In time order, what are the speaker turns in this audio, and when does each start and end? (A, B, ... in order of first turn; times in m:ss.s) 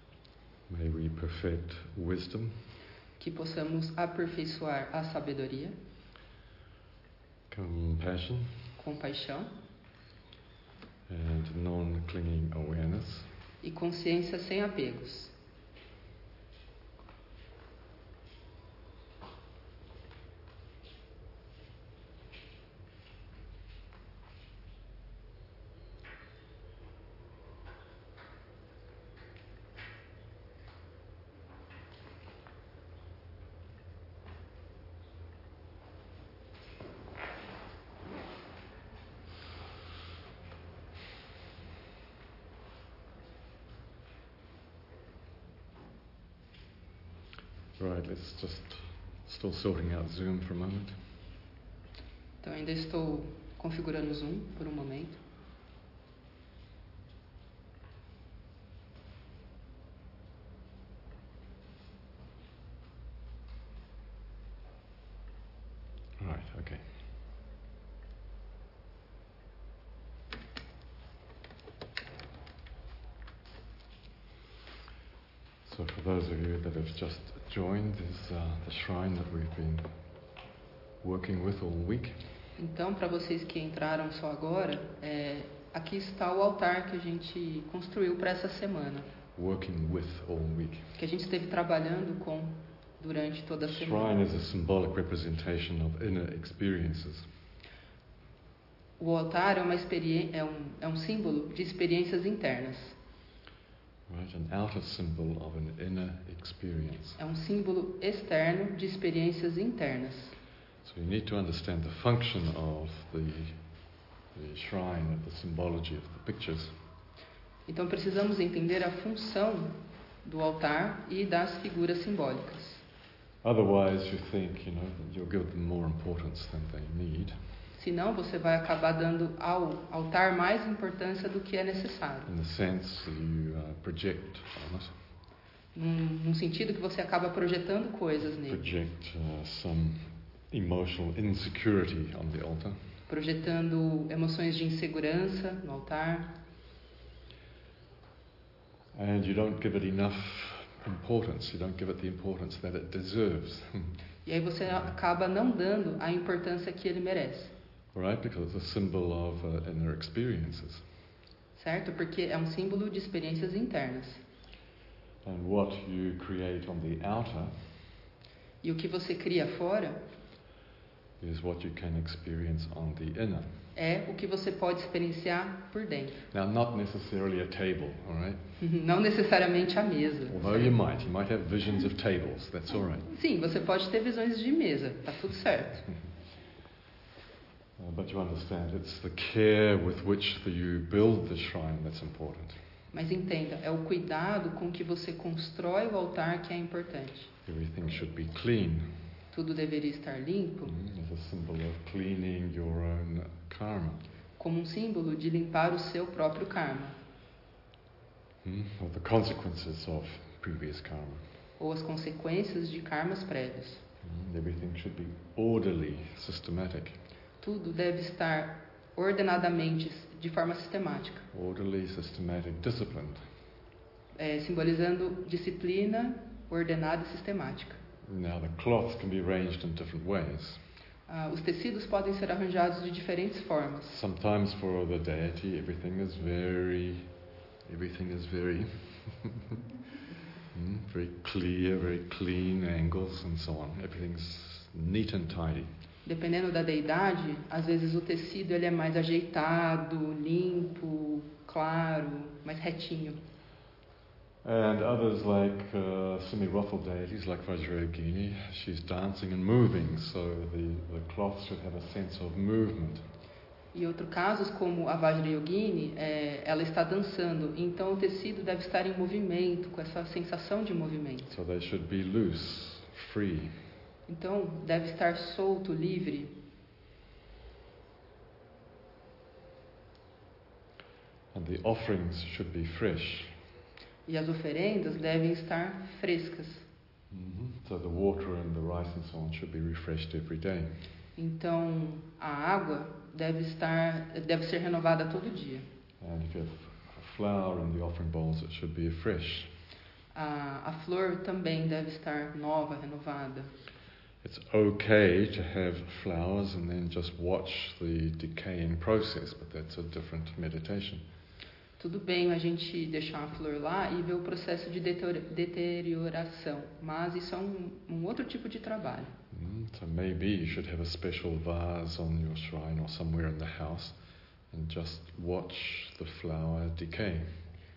0:00.7-0:02.6 A
0:03.2-0:05.8 B
0:07.5-0:08.6 A
0:08.8-0:09.5 B
0:11.1-0:13.3 A
0:13.6-0:15.3 B
0:47.8-0:51.0 A
0:52.4-0:55.2 B
1:06.2-1:06.9 A
1:15.6-1:19.9 A
1:21.0-1:22.2 A
1:22.6-1:29.1 B
1:29.3-1:30.9 A
1:31.0-1:34.2 B
1:33.6-1:37.3 A
1:39.0-1:43.0 B
1:44.1-1:47.2 A
1:47.2-1:50.4 B
1:50.8-1:53.6 A
1:54.2-1:56.8 A
1:57.7-2:02.8 B
2:03.4-2:07.4 A
2:07.7-2:12.3 B
2:12.2-2:14.9 A
2:15.7-2:18.6 B
2:18.4-2:22.8 A
2:23.1-2:26.3 B
2:28.9-2:34.0 A
2:34.2-2:37.5 B
2:37.9-2:40.8 A
2:41.5-2:44.2 B
2:45.2-2:47.9 A
2:48.6-2:50.0 B
2:51.2-2:53.5 A
2:53.7-2:56.2 B
2:56.3-2:58.4 A
2:58.6-3:00.7 B
3:00.3-3:03.1 A
3:03.1-3:05.9 B
3:07.8-3:12.6 A
3:12.9-3:17.3 B
3:17.4-3:18.9 A
3:19.3-3:20.7 B
3:20.6-3:24.0 A
3:24.4-3:27.0 B
3:28.4-3:31.2 A
3:31.6-3:33.8 B
3:34.0-3:37.0 A
3:37.4-3:41.2 B
3:41.3-3:43.2 A
3:44.2-3:47.8 B
3:48.0-3:50.6 A
3:51.1-3:53.9 B
3:53.9-3:59.6 A
4:00.5-4:05.7 A
4:06.0-4:13.2 B
4:14.4-4:23.0 A
4:23.7-4:31.3 B
4:31.3-4:33.6 A
4:34.1-4:36.3 B
4:41.3-4:43.4 A
4:44.0-4:46.6 B
4:47.1-4:50.7 A
4:51.2-4:55.7 B
4:56.0-4:59.5 A
5:00.1-5:03.5 B
5:04.2-5:11.0 A
5:11.8-5:19.1 B
5:19.3-5:24.0 A
5:24.5-5:27.3 A